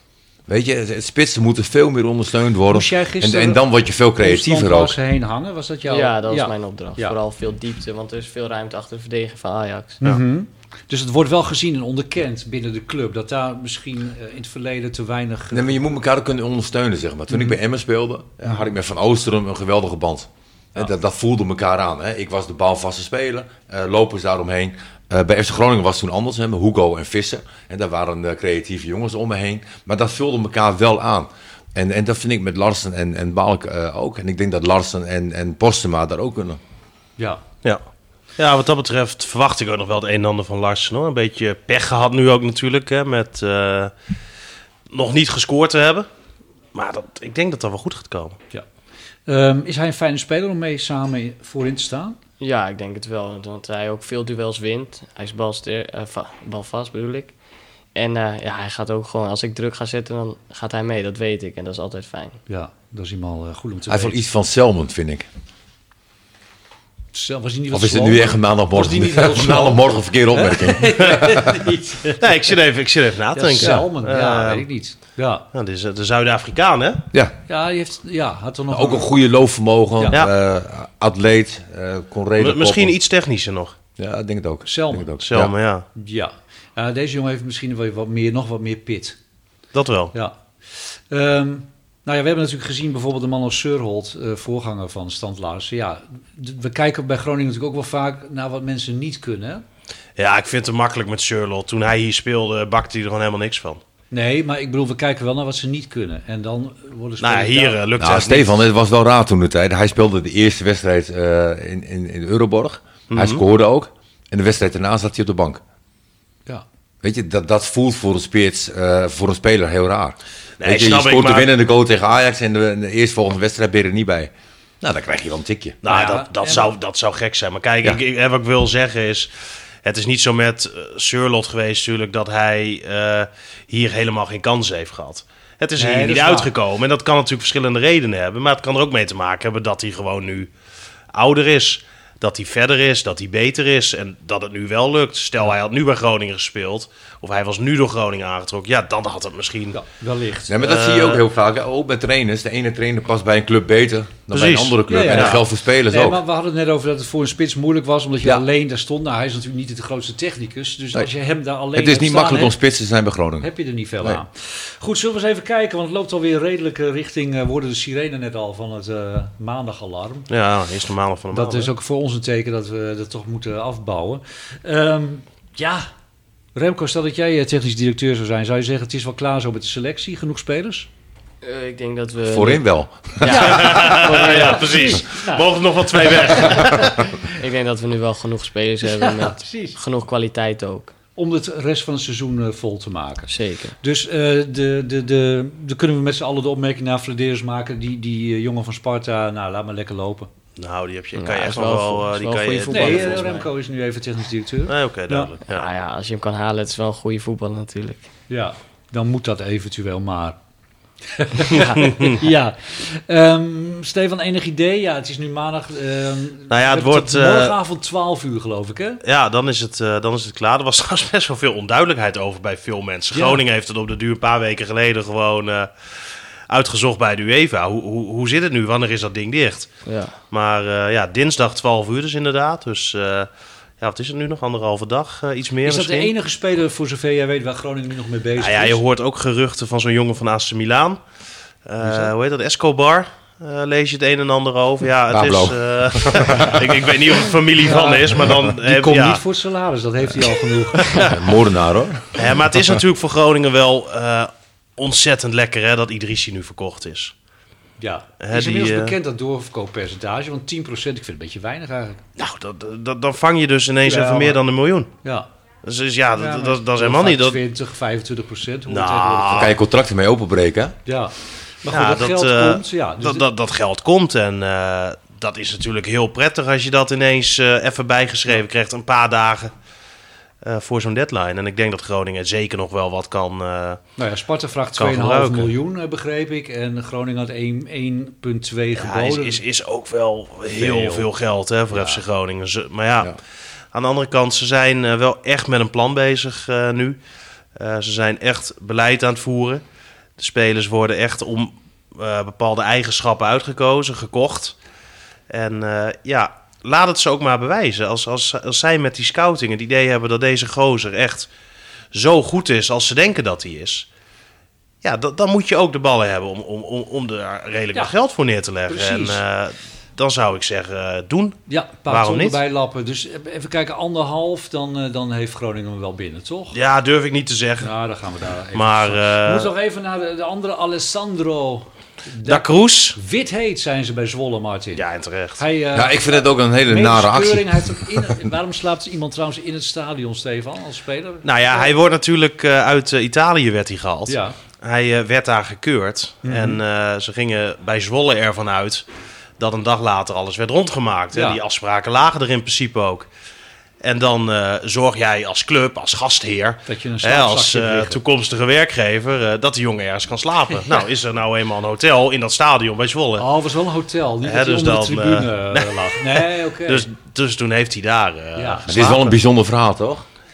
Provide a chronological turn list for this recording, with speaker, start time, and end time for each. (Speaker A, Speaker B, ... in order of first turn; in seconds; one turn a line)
Speaker A: 0.5-5.0
Speaker B: 2.7-3.6
Speaker B: 4.2-7.2
Speaker C: 5.9-10.0
Speaker B: 10.0-15.8
Speaker A: 15.5-36.6
Speaker B: 17.3-17.6
Speaker D: 38.4-43.9
Speaker D: 44.9-46.1
Speaker D: 46.7-48.4
Speaker B: 49.3-52.2
Speaker C: 52.4-57.3
Speaker C: 58.0-62.4
Speaker B: 62.5-64.2
Speaker A: 63.9-65.3
Speaker B: 67.1-72.4
Speaker A: 67.7-71.7
Speaker D: 72.2-74.7
Speaker B: 73.3-75.5
Speaker D: 75.5-77.0
Speaker B: 77.5-79.1
Speaker A: 78.7-83.0
Speaker D: 82.4-83.8
Speaker A: 84.0-85.5
Speaker B: 84.7-85.1
Speaker D: 85.2-85.9
Speaker B: 86.0-89.2
Speaker D: 89.7-90.1
Speaker B: 90.1-99.6
Speaker D: 100.2-103.8
Speaker B: 104.1-107.8
Speaker D: 107.2-108.7
Speaker A: 108.0-115.6
Speaker D: 113.1-113.4
Speaker A: 117.0-125.8
Speaker D: 120.6-121.5
Speaker D: 125.8-129.3
Speaker B: 125.8-126.7
Speaker D: 129.8-140.5
Speaker B: 135.8-136.5
Speaker D: 141.1-149.8
Speaker B: 149.7-150.6
Speaker A: 150.5-156.2
Speaker D: 150.6-151.2
Speaker D: 154.3-155.4
Speaker B: 154.9-162.6
Speaker A: 161.7-163.5
Speaker B: 163.4-170.3
Speaker D: 170.3-171.7
Speaker B: 171.3-175.8
Speaker B: 176.6-180.9
Speaker C: 181.4-182.7
Speaker A: 182.3-183.4
Speaker C: 183.2-185.0
Speaker B: 183.2-186.7
Speaker D: 183.3-187.0
Speaker A: 186.5-186.9
Speaker C: 186.7-190.9
Speaker B: 188.9-189.8
Speaker B: 191.2-200.3
Speaker C: 193.3-193.8
Speaker D: 200.6-203.3
Speaker C: 201.2-203.5
Speaker B: 202.7-205.3
Speaker D: 204.7-205.7
Speaker C: 205.5-208.0
Speaker B: 208.3-210.4
Speaker B: 211.1-219.0
Speaker D: 211.6-212.2
Speaker D: 216.5-217.6
Speaker D: 219.0-225.7
Speaker B: 223.1-223.4
Speaker D: 226.5-229.7
Speaker C: 229.9-230.1
Speaker D: 230.3-233.3
Speaker D: 233.8-236.1
Speaker B: 235.7-238.8
Speaker D: 238.4-241.0
Speaker D: 241.7-249.2
Speaker B: 241.8-242.1
Speaker A: 245.1-246.8
Speaker B: 247.6-251.1
Speaker D: 250.7-251.2
Speaker A: 251.0-252.6
Speaker D: 252.2-257.1
Speaker B: 257.8-262.0
Speaker D: 258.2-258.9
Speaker D: 262.2-264.9
Speaker B: 263.8-264.4
Speaker B: 265.0-265.3
Speaker D: 265.6-267.4
Speaker B: 266.1-269.6
Speaker D: 268.7-269.6
Speaker A: 269.3-270.8
Speaker B: 270.9-273.2
Speaker D: 271.7-279.5
Speaker D: 280.4-283.8
Speaker B: 284.0-289.4
Speaker D: 284.8-285.5
Speaker D: 288.8-293.1
Speaker B: 290.6-291.1
Speaker A: 291.7-292.0
Speaker D: 293.7-297.0
Speaker D: 297.6-299.6
Speaker D: 300.2-304.6
Speaker D: 305.3-311.3
Speaker D: 311.9-313.9
Speaker D: 314.8-322.4
Speaker B: 318.7-319.2
Speaker B: 321.5-326.6
Speaker D: 326.5-327.7
Speaker B: 327.6-334.8
Speaker D: 328.5-329.5
Speaker D: 332.3-333.0
Speaker D: 334.8-335.4
Speaker B: 335.4-341.7
Speaker A: 335.7-338.0
Speaker D: 341.2-348.9
Speaker B: 344.1-344.4
Speaker B: 346.2-346.6
Speaker D: 349.4-353.1
Speaker B: 351.1-351.4
Speaker D: 353.8-363.3
Speaker B: 356.7-358.0
Speaker B: 363.2-366.9
Speaker D: 364.2-369.2
Speaker B: 368.4-368.7
Speaker A: 368.7-370.1